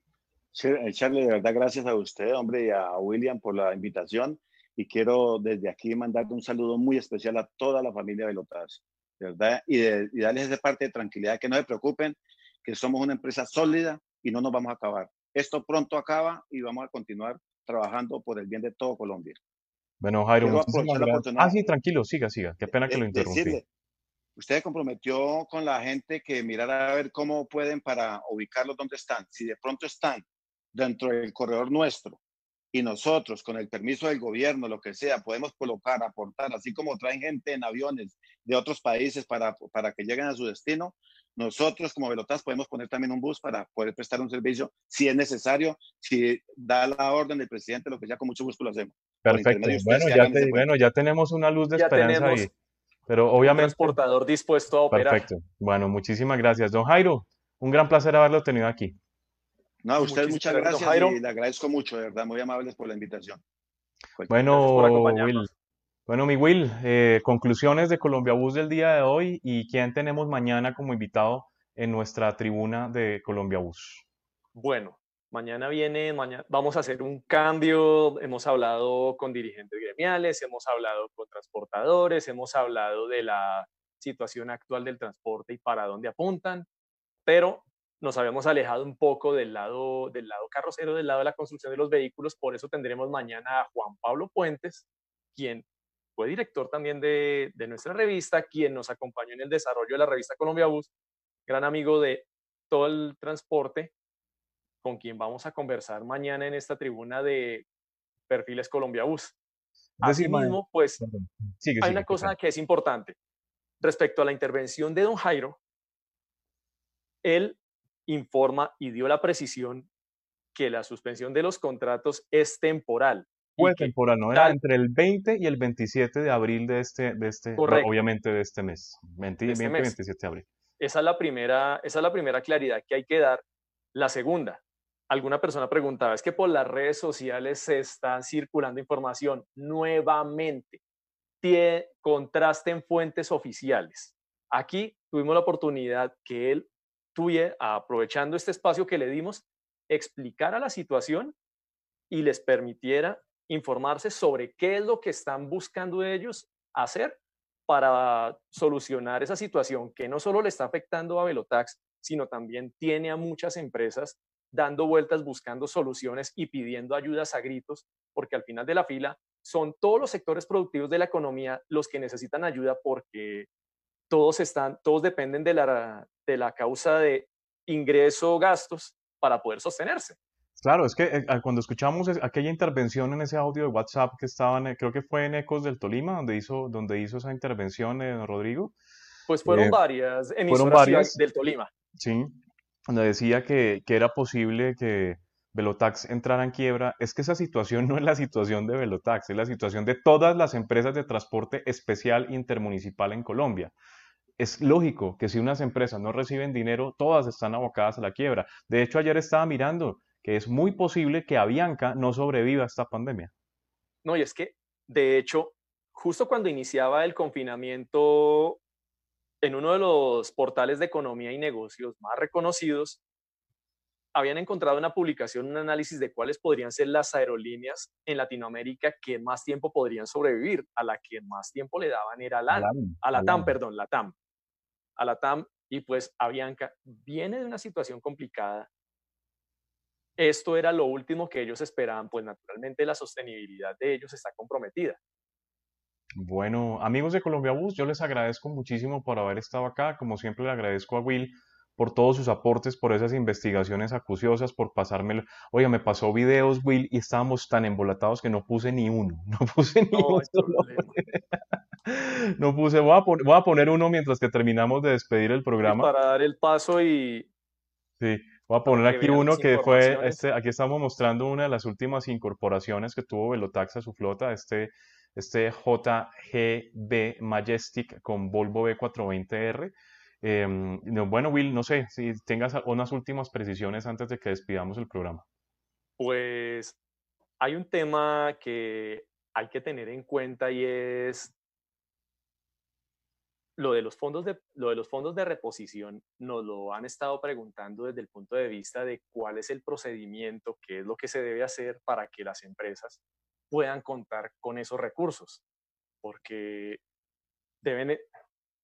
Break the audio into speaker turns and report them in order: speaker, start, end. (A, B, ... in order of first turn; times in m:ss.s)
0:00.5-0:19.4 A
0:20.0-0:23.6 B
0:20.4-0:21.6 A
0:22.7-0:23.6 A
0:24.4-0:32.2 A
0:32.7-0:50.7 A
0:49.2-0:52.5 B
0:51.8-0:52.5 C
0:53.1-0:54.0 B
0:53.4-0:55.2 C
0:54.9-0:59.0 B
0:59.8-1:03.4 A
1:00.0-1:01.2 C
1:04.3-1:05.5 B
1:04.5-1:05.5 C
1:06.1-1:14.0 B
1:14.5-1:26.6 C
1:27.2-1:35.6 C
1:36.2-1:40.9 C
1:41.5-1:43.9 C
1:44.8-1:47.6 C
1:48.3-1:49.4 C
1:50.0-1:52.3 B
1:50.0-1:51.0 C
1:51.8-1:53.2 C
1:53.8-1:55.6 C
1:57.2-1:59.9 C
2:00.5-2:04.6 C
2:03.6-2:10.5 B
2:07.6-2:07.9 C
2:09.5-2:09.9 C
2:10.8-2:20.8 C
2:21.4-2:31.3 C
2:32.1-2:53.5 C
2:54.1-3:00.2 C
3:00.6-3:08.7 B
3:09.3-3:11.7 C
3:09.4-3:09.8 B
3:10.5-3:11.2 B
3:12.0-3:12.3 B
3:12.9-3:23.7 B
3:24.4-3:33.3 B
3:34.0-3:38.6 C
3:39.4-3:43.0 C
3:44.1-3:54.1 C
3:52.5-3:53.5 B
3:55.0-3:58.7 C
4:00.2-4:05.0 C
4:06.2-4:25.9 B
4:19.9-4:20.9 C
4:25.6-4:27.3 C
4:28.0-4:45.2 B
4:28.6-4:30.2 C
4:46.0-4:46.8 C
4:47.4-4:51.3 C
4:53.6-5:03.0 C
5:03.5-5:05.4 C
5:06.0-5:06.8 C
5:07.6-5:08.0 C